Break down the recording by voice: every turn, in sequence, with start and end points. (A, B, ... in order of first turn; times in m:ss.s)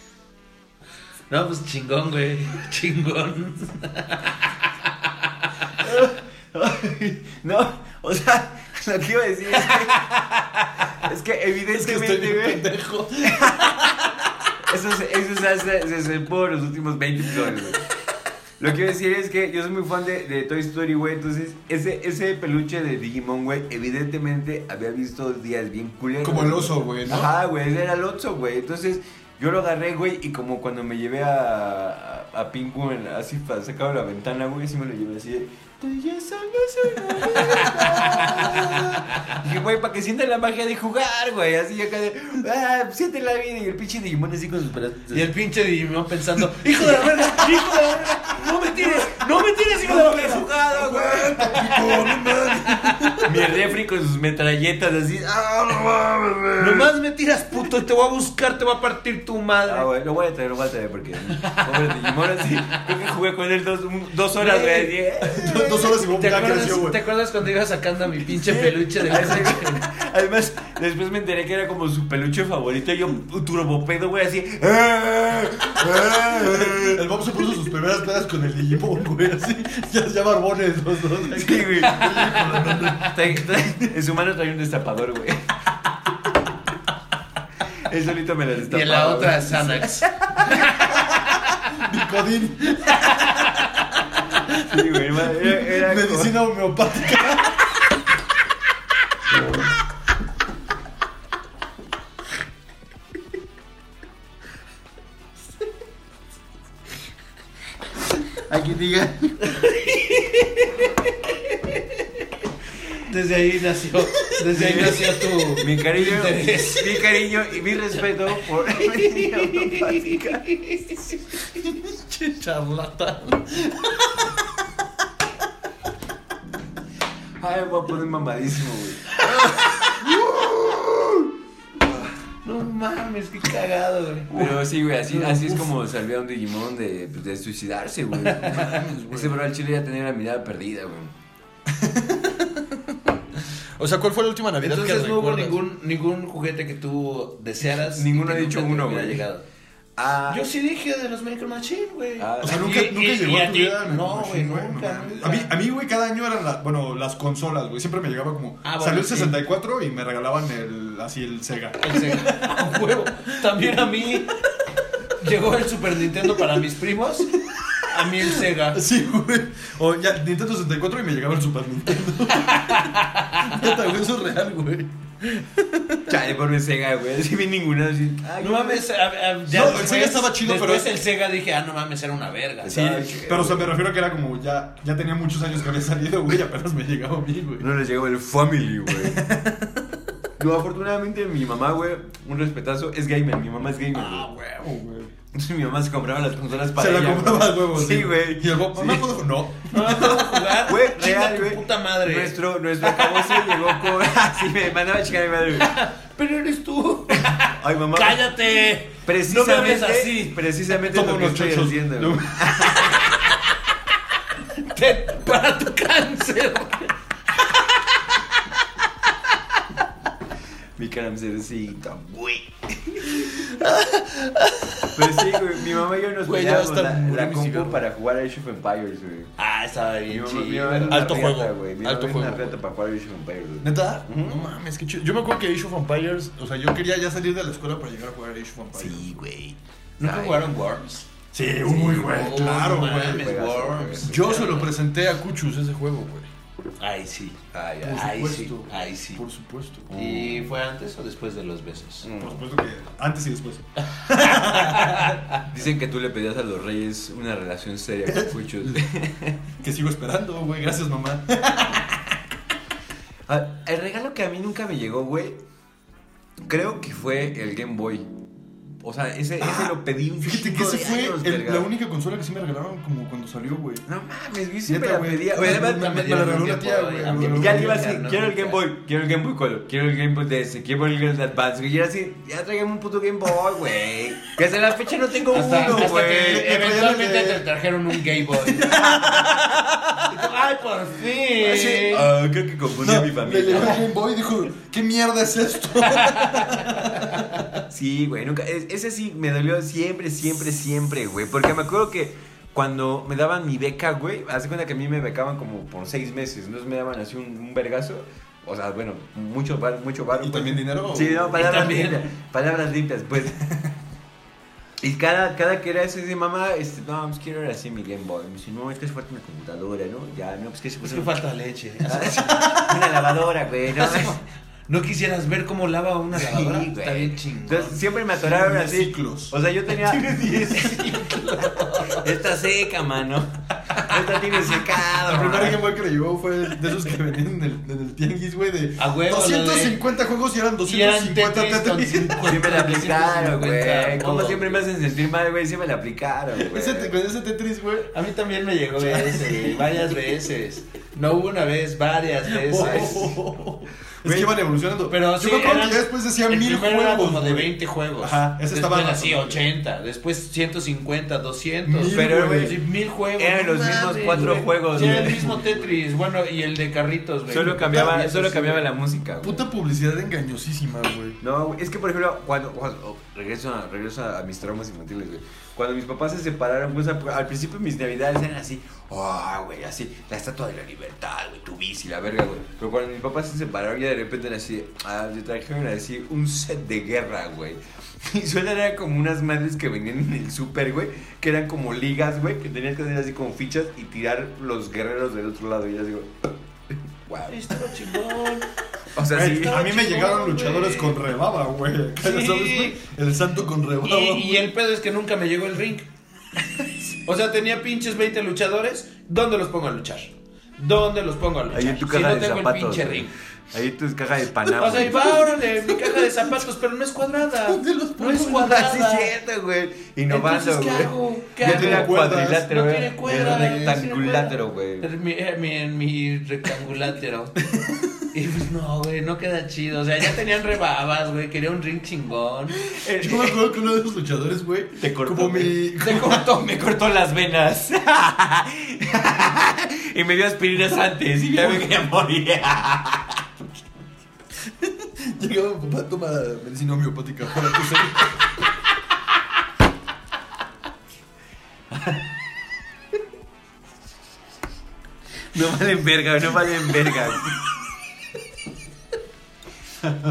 0:01.3-0:04.5 A
0:05.8-0:12.7 B
0:11.7-0:14.1 C
0:13.2-0:13.8 B
0:14.7-0:17.8 B
0:18.6-0:45.3 B
0:26.2-0:27.3 C
0:45.1-0:49.4 A
0:47.0-0:52.3 B
0:49.7-0:53.6 C
0:53.2-0:56.9 B
0:56.6-0:59.9 A
0:59.6-1:06.0 B
1:04.4-1:05.0 A
1:05.2-1:07.0 C
1:06.1-1:09.8 A
1:08.3-1:17.0 B
1:16.0-1:23.5 C
1:21.3-1:25.6 B
1:22.6-1:23.1 A
1:27.8-1:30.7 B
1:28.7-1:31.0 A
1:31.6-1:33.6 C
1:33.0-1:33.6 A
1:34.5-1:36.4 B
1:35.4-1:37.6 C
1:39.3-1:39.6 A
1:48.5-1:49.8 B
1:49.5-1:50.7 A
1:52.9-1:57.2 A
1:54.5-2:00.4 B
1:58.7-2:01.2 A
2:01.6-2:04.0 C
2:07.4-2:10.0 B
2:10.0-2:11.2 C
2:12.4-2:14.3 A
2:14.3-2:21.1 B
2:14.4-2:15.7 C
2:18.3-2:18.7 A
2:18.3-2:19.4 C
2:21.7-2:25.6 C
2:24.6-2:29.4 A
2:27.7-2:29.2 B
2:30.0-2:30.4 B
2:30.3-2:35.5 A
2:32.2-2:32.7 B
2:32.4-2:43.5 C
2:38.6-2:39.4 A
2:41.8-2:44.4 A
2:45.1-2:48.8 A
2:47.4-2:56.2 C
2:52.4-2:53.6 A
2:56.1-2:58.8 B
2:58.4-3:02.8 A
2:59.5-3:01.0 C
3:02.6-3:03.7 B
3:02.7-3:07.7 C
3:07.6-3:09.2 B
3:08.9-3:10.0 C
3:10.4-3:14.3 B
3:14.1-3:15.0 C
3:14.1-3:14.4 A
3:15.2-3:19.1 B
3:16.7-3:20.2 C
3:19.7-3:23.7 A
3:19.7-3:25.8 B
3:25.6-3:30.4 A
3:27.1-3:28.3 B
3:29.0-3:33.1 B
3:30.8-3:33.0 C
3:32.9-3:33.4 A
3:34.6-3:36.9 A
3:37.4-3:38.2 A
3:40.8-3:43.4 B
3:43.3-3:45.2 C
3:44.9-3:49.3 B
3:46.2-3:47.8 C
3:49.4-3:51.2 A
3:50.1-3:54.5 B
3:50.9-3:52.6 C
3:53.6-3:59.1 C
3:58.7-4:00.5 B
4:00.0-4:01.1 A
4:01.3-4:03.2 C
4:01.6-4:04.6 B
4:02.0-4:04.7 A
4:04.0-4:06.3 C
4:06.8-4:09.2 A
4:07.5-4:08.1 B
4:07.8-4:09.9 C
4:09.9-4:10.5 B
4:09.9-4:12.1 A
4:12.0-4:12.4 B
4:12.2-4:15.2 C
4:14.2-4:15.4 A
4:15.4-4:19.4 B
4:18.1-4:18.8 C
4:19.6-4:22.2 C
4:23.3-4:25.4 B
4:26.5-4:28.0 B
4:28.8-4:31.7 B
4:29.4-4:33.8 C
4:33.9-4:36.5 B
4:34.6-4:37.8 C
4:35.3-4:38.6 A
4:37.1-4:46.4 B
4:45.3-4:48.9 A
4:45.3-4:47.5 C
4:48.3-4:49.7 C
4:48.7-4:49.8 B
4:50.1-4:52.1 A
4:51.4-4:52.0 C
4:51.5-4:53.8 B
4:52.7-4:57.5 C
4:55.8-4:57.4 A
4:57.7-5:13.4 B
5:10.1-5:11.8 C
5:11.4-5:12.1 A
5:14.8-5:21.1 B
5:20.8-5:22.5 A
5:21.8-5:24.2 B
5:22.1-5:22.8 C
5:23.7-5:27.8 A
5:26.1-5:31.1 B
5:28.1-5:30.4 C
5:30.0-5:32.1 A
5:31.8-5:35.6 B
5:33.7-5:34.0 C
5:35.0-5:42.6 C
5:38.8-5:39.8 A
5:40.6-5:44.6 A
5:42.2-5:46.9 B
5:46.3-5:47.9 C
5:47.9-5:53.1 A
5:48.8-5:49.9 C
5:52.2-5:59.4 C
5:52.6-5:53.2 B
5:54.0-5:54.3 B
5:54.9-6:08.6 A
6:01.6-6:02.6 C
6:01.9-6:02.6 B
6:03.2-6:05.2 B
6:04.7-6:05.8 C
6:07.3-6:09.4 B
6:09.2-6:11.2 C
6:11.2-6:36.1 B
6:37.1-6:37.7 B
6:37.2-6:38.5 A
6:38.9-6:39.7 B
6:39.1-6:44.5 C
6:39.4-6:41.0 A
6:42.0-6:42.8 A
6:43.8-6:45.9 A
6:47.0-6:53.1 A
6:51.5-6:55.2 B
6:54.4-6:59.1 A
6:54.9-6:56.4 C
6:57.5-6:58.6 C
6:58.4-7:04.9 B
7:00.1-7:07.4 A
7:01.4-7:02.5 C
7:03.0-7:03.8 C
7:07.6-7:07.9 C
7:08.1-7:12.7 A
7:12.6-7:13.4 B
7:13.0-7:16.3 C
7:14.8-7:23.2 B
7:21.4-7:21.6 C
7:24.4-7:28.1 C
7:31.7-7:32.0 B
7:35.3-7:37.4 B